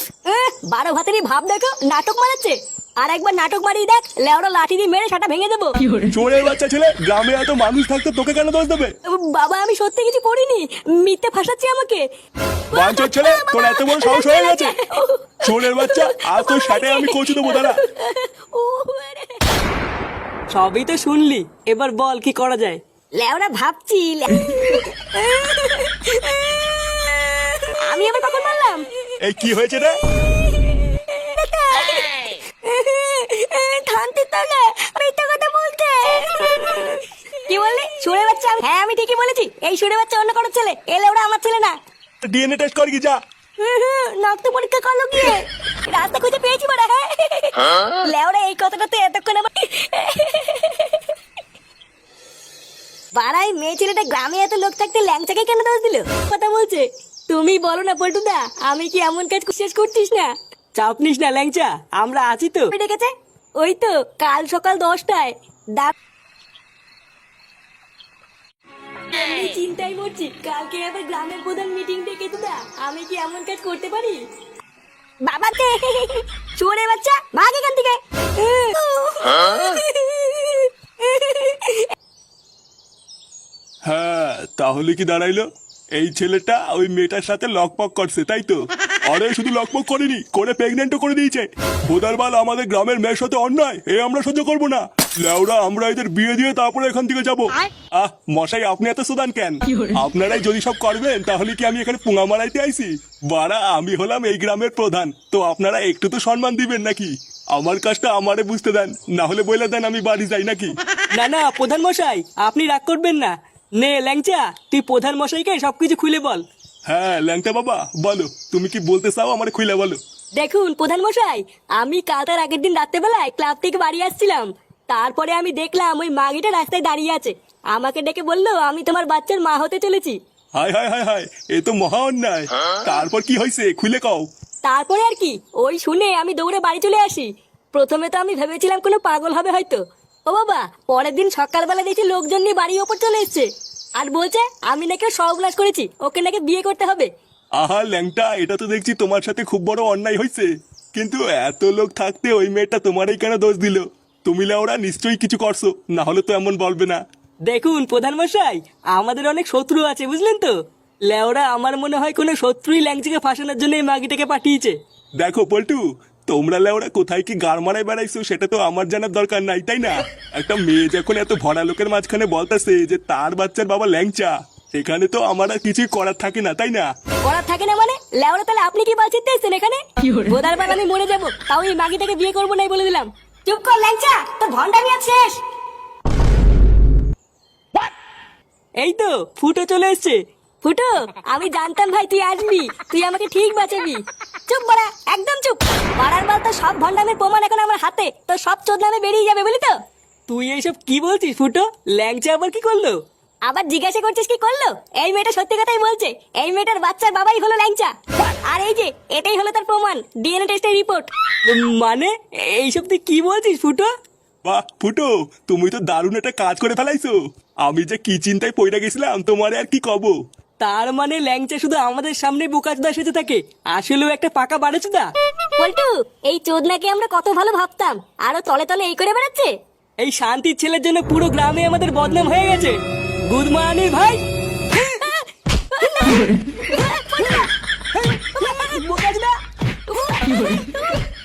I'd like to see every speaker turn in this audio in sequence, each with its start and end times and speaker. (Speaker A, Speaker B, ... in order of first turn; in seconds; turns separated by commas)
Speaker A: 0.2-5.8, Speaker B: 6.1-8.9, Speaker A: 9.1-12.0, Speaker A: 12.7-19.4, Speaker B: 12.7-14.8, Speaker B: 15.4-17.8, Speaker C: 20.5-22.8, Speaker A: 23.2-28.9, Speaker B: 29.2-30.0, Speaker A: 30.1-41.8, Speaker B: 42.2-43.2, Speaker A: 43.6-51.1, Speaker A: 53.2-60.3, Speaker C: 60.8-62.7, Speaker A: 62.7-65.9, Speaker A: 69.1-74.2, Speaker A: 75.3-81.9, Speaker B: 83.9-110.7, Speaker C: 111.2-116.5, Speaker B: 116.9-120.0, Speaker A: 120.4-130.2, Speaker B: 130.6-134.3, Speaker A: 134.7-147.1, Speaker B: 147.6-157.0, Speaker C: 157.5-160.5, Speaker C: 161.1-164.8, Speaker B: 165.2-176.9, Speaker A: 177.2-185.4, Speaker C: 188.8-190.2, Speaker A: 190.6-199.8, Speaker C: 200.3-203.0, Speaker A: 203.5-207.9, Speaker A: 208.5-211.1, Speaker C: 211.5-213.9, Speaker B: 214.4-220.2, Speaker C: 220.6-225.1, Speaker A: 225.6-229.5, Speaker C: 230.0-234.2, Speaker A: 234.8-237.5, Speaker C: 238.1-239.3, Speaker A: 238.3-238.8, Speaker A: 239.9-241.0